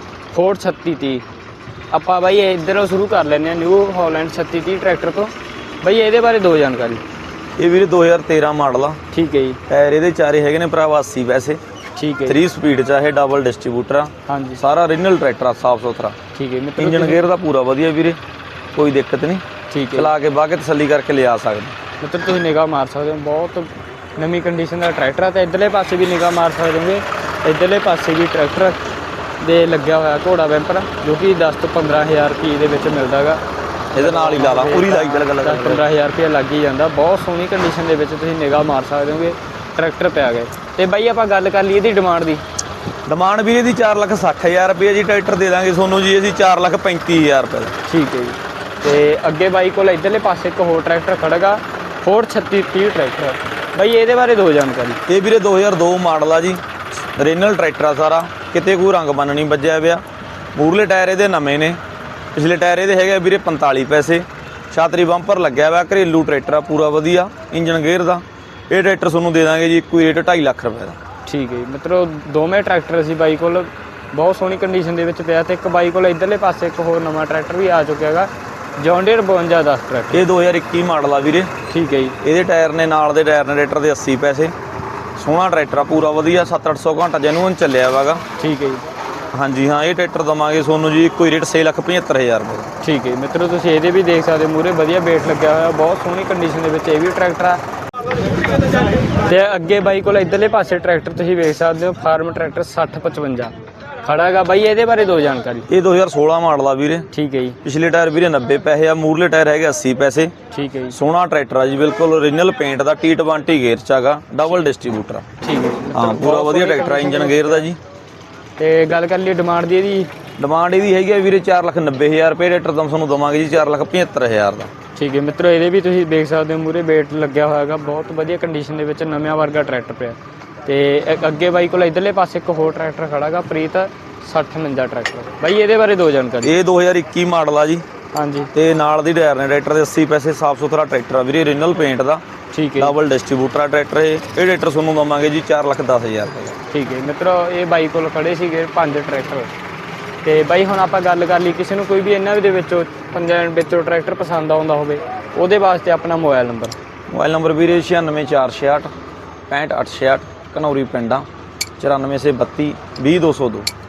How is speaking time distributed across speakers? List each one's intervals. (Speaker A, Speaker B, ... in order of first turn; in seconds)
Speaker A: 0.3-1.2, 1.9-7.0, 9.1-9.6, 12.0-12.4, 14.3-14.6, 16.3-17.2, 19.7-20.1, 22.0-28.8, 29.4-33.4, 34.0-42.4, 47.9-55.0, 71.3-80.2, 81.7-82.2, 88.4-88.8, 92.8-97.6, 99.1-105.7, 107.1-107.6, 110.5-111.0, 115.4-117.7, 118.6-120.1, 124.9-136.5, 138.2-138.5, 142.5-142.9, 146.7-149.5, 150.2-156.8
Speaker B: 7.6-9.0, 9.7-11.6, 12.3-16.2, 16.8-18.2, 18.7-21.8, 33.9-35.8, 43.0-47.7, 55.1-56.6, 57.2-60.0, 60.5-61.8, 62.3-71.0, 80.1-81.5, 82.2-84.5, 85.2-88.2, 89.3-92.7, 105.7-107.1, 107.6-110.3, 110.9-115.2, 115.9-117.8, 120.4-124.7, 136.4-137.8, 138.5-142.2, 142.8-146.6, 157.1-158.9, 159.5-161.2, 161.8-163.7